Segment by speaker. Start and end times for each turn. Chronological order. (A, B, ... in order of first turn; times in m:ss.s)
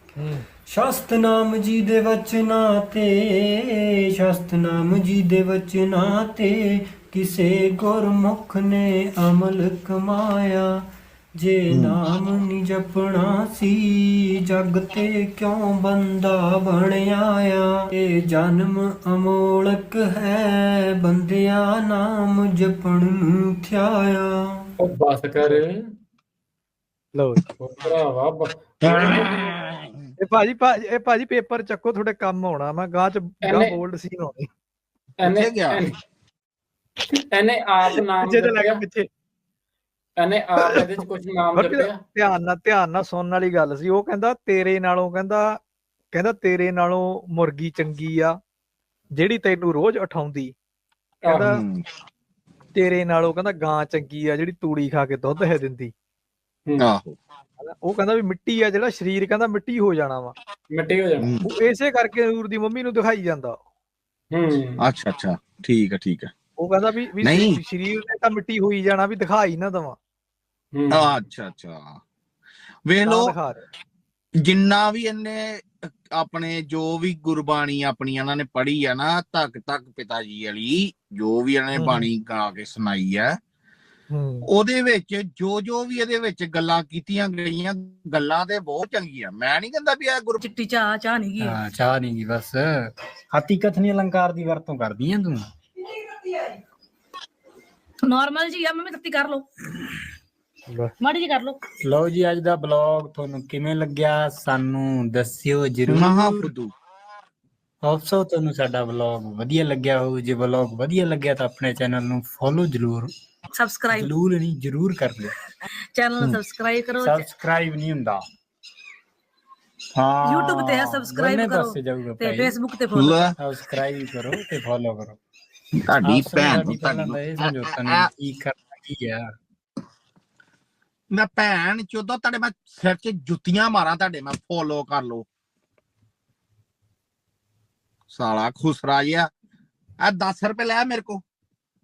0:00.2-0:00.4 A
0:00.7-0:10.8 B
0:11.4-0:24.6 B
0:11.7-0:12.0 C
0:24.8-0:25.7 D
0:27.1-0:27.9 A
0:27.6-0:29.2 D
0:28.9-0:29.5 C
0:30.2-0:34.5 A
0:33.4-0:33.8 D
0:35.2-0:35.9 D
0:35.2-0:35.8 C
0:37.2-0:38.8 D
0:37.9-0:39.1 A
0:40.2-0:42.0 D
0:40.6-0:40.8 A
0:41.5-0:45.6 A
0:46.1-0:48.4 A
0:49.1-0:50.5 A
0:51.2-0:51.5 D
0:51.2-0:51.6 A
0:51.5-0:51.8 C
0:52.7-0:55.9 A
0:56.8-0:57.2 C
0:57.6-1:00.4 A
1:00.7-1:01.4 D
1:01.2-1:01.5 C
1:01.4-1:03.6 A
1:04.3-1:04.8 D
1:04.8-1:06.3 C
1:06.6-1:10.0 A
1:07.2-1:07.6 C
1:10.7-1:11.1 D
1:10.9-1:12.0 C
1:12.9-1:13.4 C
1:13.0-1:13.6 A
1:14.4-1:23.4 C
1:21.8-1:22.1 A
1:24.1-1:24.5 A
1:24.5-1:30.4 C
1:30.4-1:31.6 E
1:31.4-1:35.4 F
1:38.0-1:40.0 E
1:41.0-1:41.6 E
1:41.8-1:46.5 F
1:45.9-1:46.7 C
1:47.8-1:53.1 F
1:53.6-1:54.1 E
1:53.9-1:55.3 F
1:55.9-1:57.3 E
1:57.0-1:58.2 F
2:00.0-2:02.6 F
2:00.2-2:03.3 E
2:02.9-2:03.4 C
2:03.4-2:05.2 F
2:05.8-2:08.1 C
2:06.0-2:09.2 F
2:11.1-2:15.2 C
2:18.1-2:19.3 C
2:20.0-2:21.2 C